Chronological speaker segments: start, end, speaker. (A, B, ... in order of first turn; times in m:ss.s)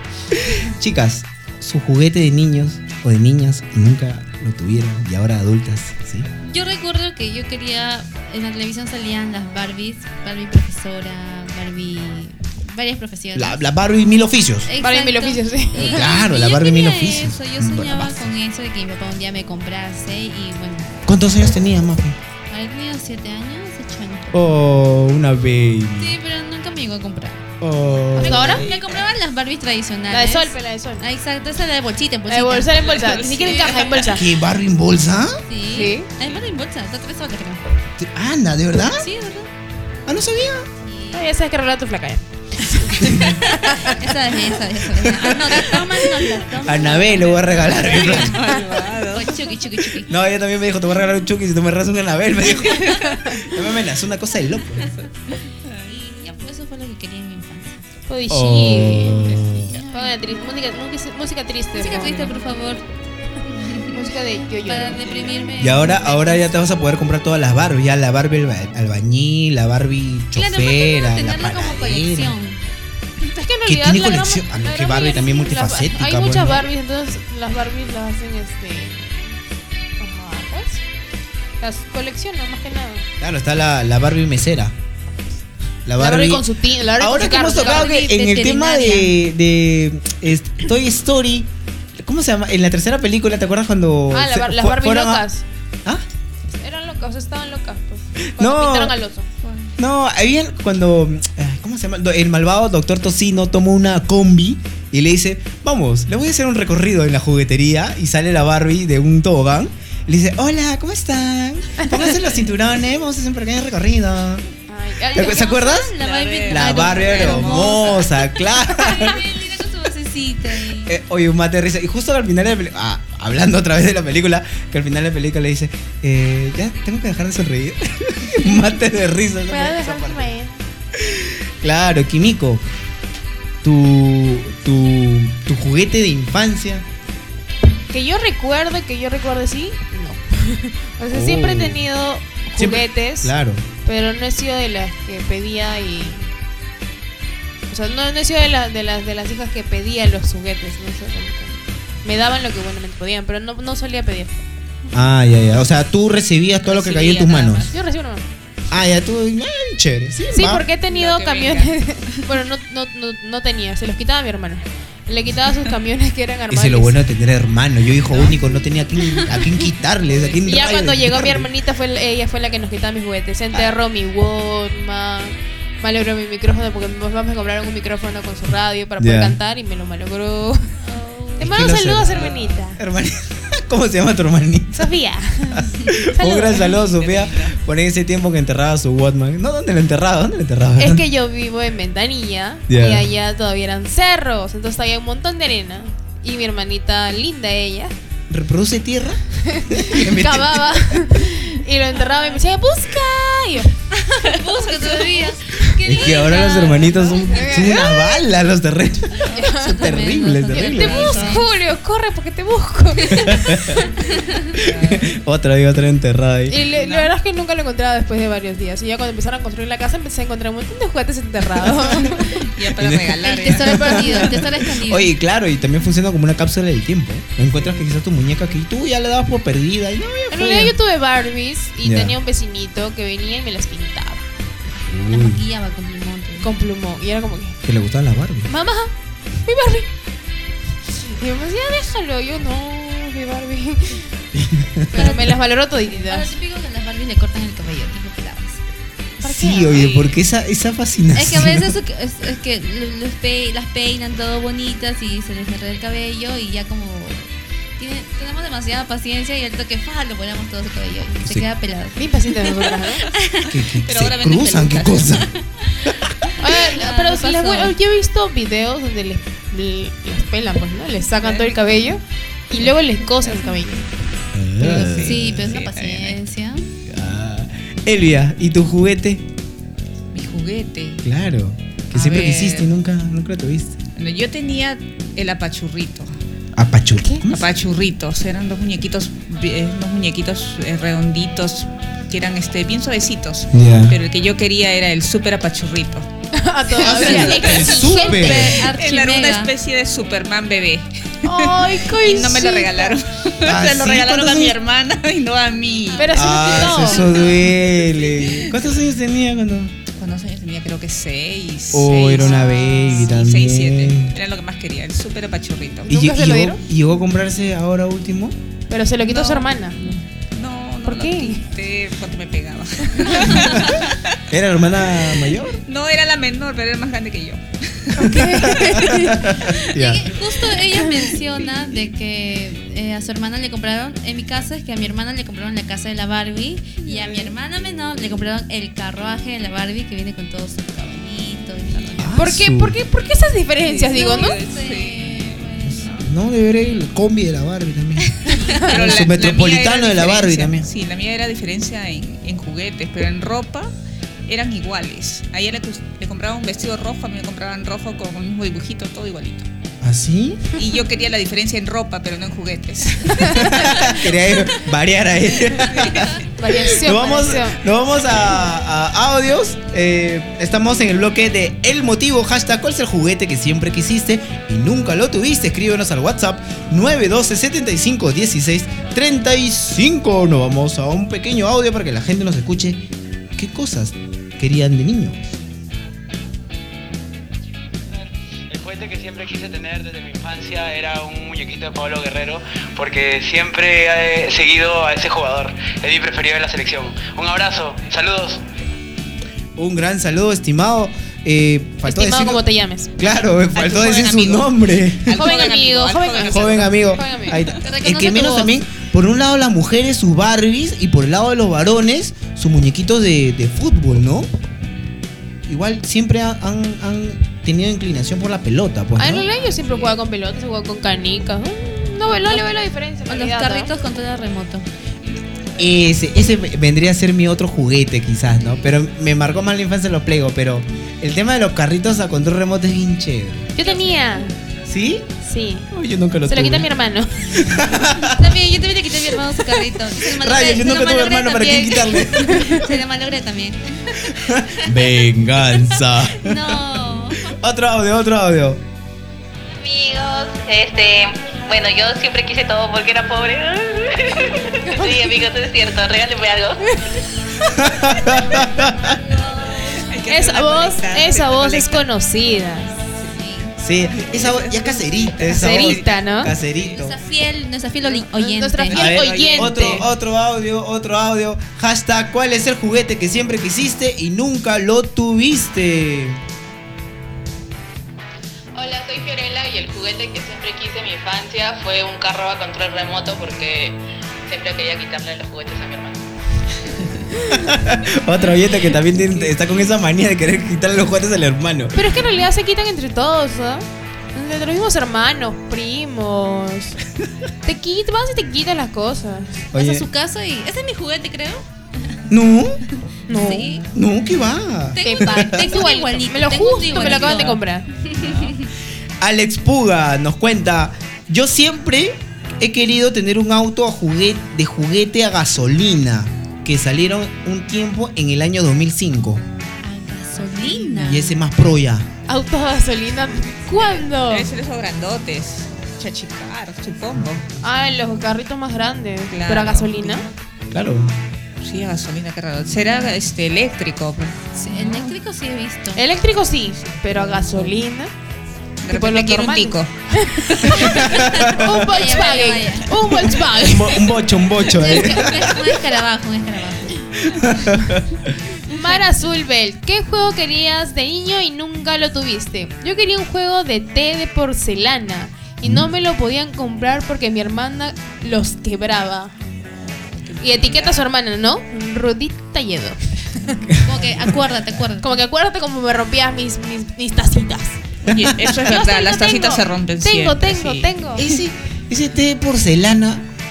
0:00.3-0:06.3 A
0:06.5-0:13.6 B
0:13.3-0:14.7 A
0:14.7-0:21.1 B
0:14.8-0:16.2 C
0:15.7-0:18.3 A
0:21.0-0:22.2 A
0:22.5-0:24.6 B
0:24.3-0:26.2 A
0:26.0-0:27.4 B
0:27.6-0:28.6 A
0:28.1-0:34.1 B
0:28.2-0:28.6 C
0:28.5-0:29.0 D
0:30.1-0:31.0 C
0:32.3-0:34.2 C
0:34.1-0:35.4 A
0:35.5-0:37.8 B
0:35.7-0:36.1 C
0:38.0-0:39.1 A
0:38.8-0:39.5 B
0:40.1-0:40.7 A
0:40.8-0:41.2 B
0:41.1-0:43.0 C
0:43.0-0:43.3 A
0:43.4-0:50.1 B
0:43.6-0:43.9 C
0:46.6-0:48.3 A
0:47.7-0:49.4 D
0:50.1-0:54.9 A
0:55.8-0:57.8 B
0:58.1-0:59.2 C
0:58.3-0:59.7 A
0:59.2-1:00.1 B
0:59.9-1:02.2 C
1:01.8-1:02.8 B
1:01.8-1:02.4 D
1:03.5-1:03.9 B
1:03.9-1:05.4 C
1:04.6-1:06.6 B
1:05.6-1:12.3 A
1:10.3-1:12.6 B
1:13.2-1:19.4 C
1:13.6-1:16.7 A
1:20.0-1:20.8 C
1:21.6-1:23.0 C
1:23.2-1:24.7 A
1:25.8-1:26.4 A
1:26.0-1:27.9 C
1:27.0-1:35.2 A
1:27.8-1:29.1 B
1:34.1-1:35.4 C
1:36.5-1:39.3 C
1:38.4-1:38.9 A
1:39.8-1:54.4 A
1:54.7-1:55.4 C
1:55.1-1:55.9 A
1:55.1-2:00.9 B
1:56.0-1:58.0 D
1:56.5-1:59.2 A
2:00.8-2:10.3 A
2:09.5-2:10.5 C
2:11.0-2:12.6 A
2:13.6-2:16.8 A
2:17.9-2:23.3 C
2:21.1-2:21.8 A
2:22.6-2:23.6 A
2:23.8-2:26.3 C
2:27.7-2:34.4 C
2:34.9-2:37.6 A
2:36.6-2:37.8 D
2:37.7-2:38.2 C
2:38.7-2:40.6 A
2:40.3-2:47.0 C
2:40.9-2:41.7 D
2:46.5-2:51.5 A
2:50.1-2:50.4 D
2:50.4-3:00.7 C
2:59.0-2:59.4 A
3:00.8-3:01.8 B
3:01.4-3:02.8 C
3:01.4-3:04.9 A
3:04.8-3:06.7 C
3:05.5-3:11.0 A
3:06.7-3:07.6 D
3:10.8-3:17.9 C
3:12.7-3:13.1 A
3:18.3-3:20.9 A
3:19.5-3:23.8 C
3:24.0-3:27.7 B
3:24.8-3:25.2 C
3:25.8-3:31.2 A
3:27.2-3:28.2 C
3:29.3-3:31.4 B
3:29.4-3:29.9 C
3:30.5-3:33.4 C
3:31.1-3:31.4 D
3:33.1-3:33.8 A
3:34.5-3:35.1 D
3:34.8-3:36.6 A
3:36.5-3:42.3 C
3:36.8-3:37.1 D
3:42.4-3:44.3 D
3:42.8-3:50.7 A
3:43.2-3:45.1 B
3:47.5-3:47.8 D
3:50.3-3:54.3 C
3:51.8-3:52.1 A
3:54.9-3:55.4 A
3:55.1-3:56.5 B
3:56.4-3:57.6 C
3:57.6-3:58.5 A
3:58.5-3:59.9 C
4:01.0-4:04.1 C
4:04.3-4:05.0 A
4:04.9-4:06.3 C
4:04.9-4:05.4 B
4:06.1-4:08.6 B
4:09.2-4:10.2 C
4:09.2-4:11.7 A
4:11.1-4:23.6 B
4:22.0-4:23.0 C
4:23.4-4:25.3 A
4:23.8-4:25.2 D
4:26.4-4:33.8 C
4:26.5-4:27.7 B
4:31.2-4:31.6 D
4:33.2-4:33.8 D
4:34.3-4:35.6 A
4:34.6-4:36.2 D
4:34.7-4:36.6 B
4:36.8-4:39.2 A
4:40.1-4:41.0 D
4:41.0-4:43.8 A
4:41.9-4:42.7 D
4:44.0-4:46.1 D
4:46.6-4:47.4 A
4:47.3-4:56.1 D
4:53.5-4:54.0 A
4:56.4-4:58.6 C
4:56.8-4:58.7 A
4:56.8-4:57.7 D
4:57.5-4:59.5 B
4:58.3-5:06.1 D
5:01.2-5:03.0 C
5:03.4-5:04.6 A
5:05.8-5:07.4 B
5:06.0-5:07.3 C
5:06.1-5:09.8 A
5:10.0-5:15.9 D
5:11.7-5:14.1 A
5:15.8-5:16.6 C
5:15.9-5:18.4 A
5:18.7-5:20.0 C
5:19.0-5:19.5 D
5:20.3-5:24.2 D
5:20.8-5:21.4 C
5:23.4-5:23.7 A
5:24.3-5:25.6 A
5:25.2-5:28.8 D
5:27.9-5:29.2 C
5:28.0-5:30.1 A
5:29.7-5:42.2 B
5:36.9-5:37.3 D
5:42.0-5:42.8 A
5:42.2-5:44.4 C
5:43.6-5:45.4 D
5:43.9-5:46.0 B
5:45.6-5:48.1 A
5:48.2-5:48.5 B
5:48.6-5:53.7 D
5:48.7-5:50.7 A
5:54.3-5:59.5 D
5:59.8-6:00.5 A
6:00.6-6:04.3 D
6:03.3-6:22.8 A
6:05.5-6:06.1 D
6:06.4-6:07.6 C
6:23.4-6:25.4 A
6:28.5-6:38.4 E
6:39.6-6:42.4 A
6:41.8-6:42.9 C
6:43.0-6:45.3 A
6:43.5-6:47.0 D
6:45.2-6:47.4 C
6:46.2-6:54.3 A
6:47.6-6:48.5 B
6:55.4-6:59.3 A
6:59.0-7:03.7 C
6:59.4-6:59.9 B
7:03.1-7:04.6 B
7:05.6-7:13.5 A
7:13.6-7:14.3 C
7:13.6-7:14.2 B
7:14.6-7:15.1 A
7:15.2-7:15.7 C
7:15.7-7:16.7 A
7:16.3-7:17.6 C
7:17.3-7:18.3 A
7:18.1-7:24.1 B
7:20.0-7:22.6 A
7:20.6-7:22.7 C
7:24.0-7:26.6 A
7:26.2-7:27.2 B
7:27.2-7:28.6 A
7:29.5-7:36.6 F
7:34.6-7:35.1 C
7:37.6-7:39.0 A
7:39.5-7:41.8 D
7:40.1-7:42.7 C
7:42.9-7:45.9 D
7:43.6-7:47.0 A
7:45.3-7:46.3 C
7:46.7-7:48.8 B
7:48.1-7:49.8 C
7:48.7-7:49.9 D
7:48.7-7:56.2 A
7:58.5-8:06.0 F
8:07.3-8:11.8 A
8:11.7-8:16.8 C
8:17.4-8:19.4 C
8:19.5-8:19.9 A
8:19.5-8:22.0 B
8:22.1-8:22.6 A
8:23.1-8:23.6 C
8:23.1-8:25.5 A
8:23.1-8:23.6 B
8:24.7-8:28.4 B
8:24.8-8:27.7 C
8:29.0-8:39.2 A
8:39.6-8:41.2 B
8:40.7-8:41.9 A
8:42.1-8:44.3 C
8:44.0-8:47.2 D
8:47.4-8:50.0 C
8:49.1-8:50.0 D
8:50.5-8:50.9 A
8:51.4-8:54.9 D
8:54.4-8:55.8 B
8:55.7-8:57.9 C
8:56.9-8:57.5 D
8:58.6-9:00.6 D
8:58.7-9:03.8 C
9:01.2-9:02.7 B
9:01.2-9:01.5 A
9:03.4-9:05.6 A
9:04.5-9:06.9 B
9:07.0-9:08.0 A
9:08.5-9:19.1 C
9:15.4-9:15.7 A
9:20.0-9:20.8 D
9:20.2-9:23.4 C
9:23.6-9:24.8 B
9:24.8-9:27.6 C
9:27.9-9:30.7 D
9:28.4-9:31.0 C
9:31.0-9:33.0 A